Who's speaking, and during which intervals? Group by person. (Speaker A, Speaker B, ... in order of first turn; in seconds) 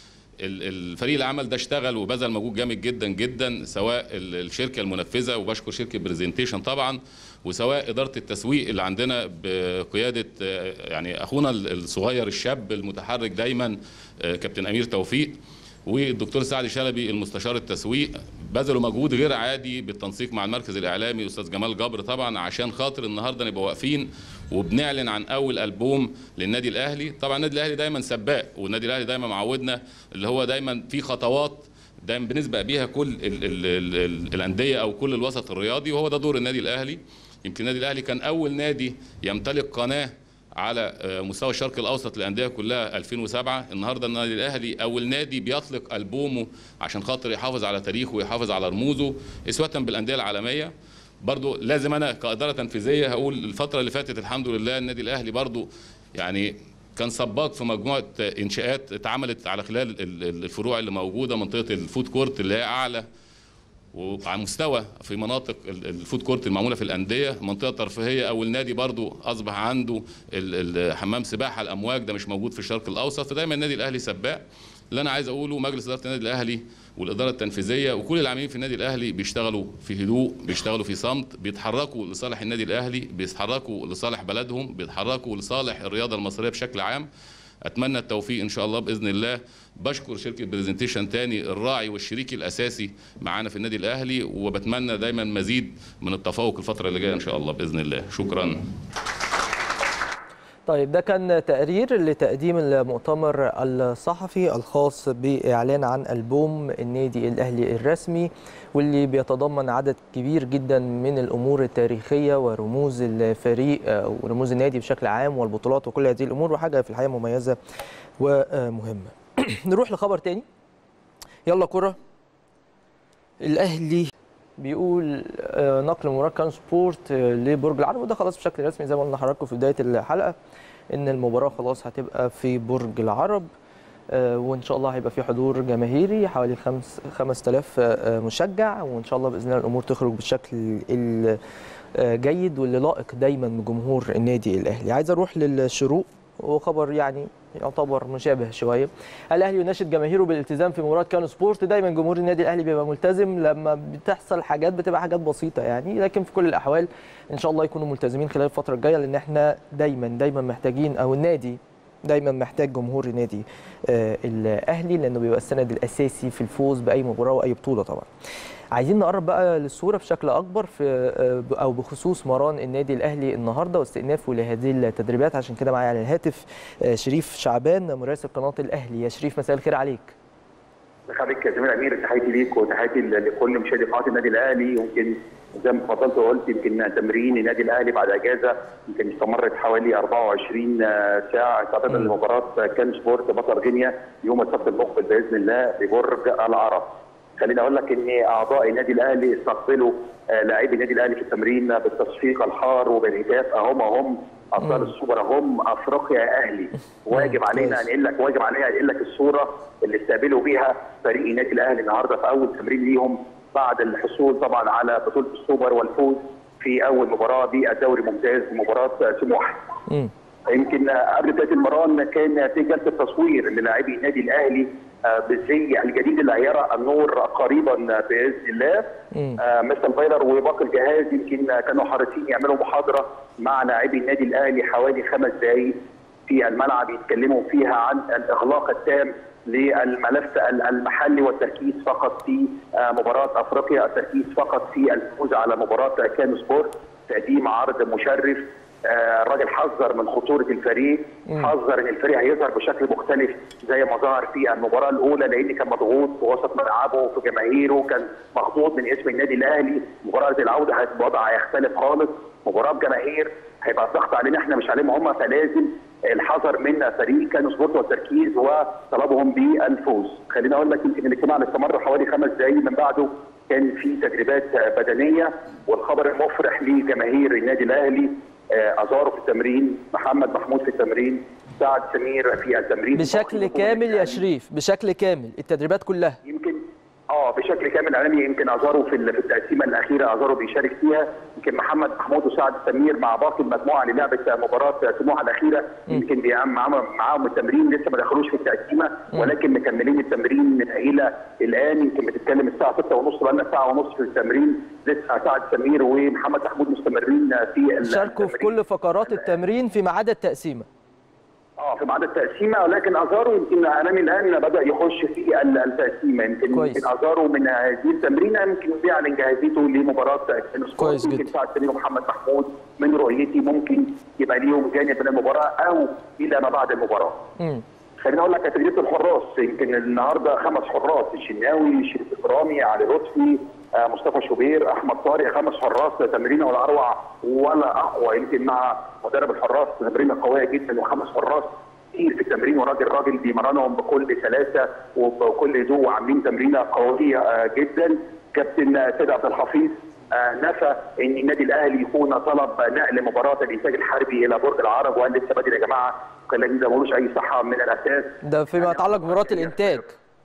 Speaker A: 0.4-50.7, 51.2-63.0, 63.9-87.1, 87.7-98.7
Speaker B: 100.7-117.6, 118.2-120.5, 121.5-122.0, 123.4-130.3, 130.9-133.5, 134.1-141.4, 142.0-168.1, 168.8-180.2, 204.6-204.9, 207.1-207.8, 229.1-229.4, 282.9-286.2, 307.8-310.7, 316.5-316.9, 320.8-321.3, 327.4-327.6, 358.2-359.9
Speaker C: 181.1-219.6, 220.5-235.8, 236.3-284.2, 286.2-308.5, 311.6-327.3, 328.0-359.8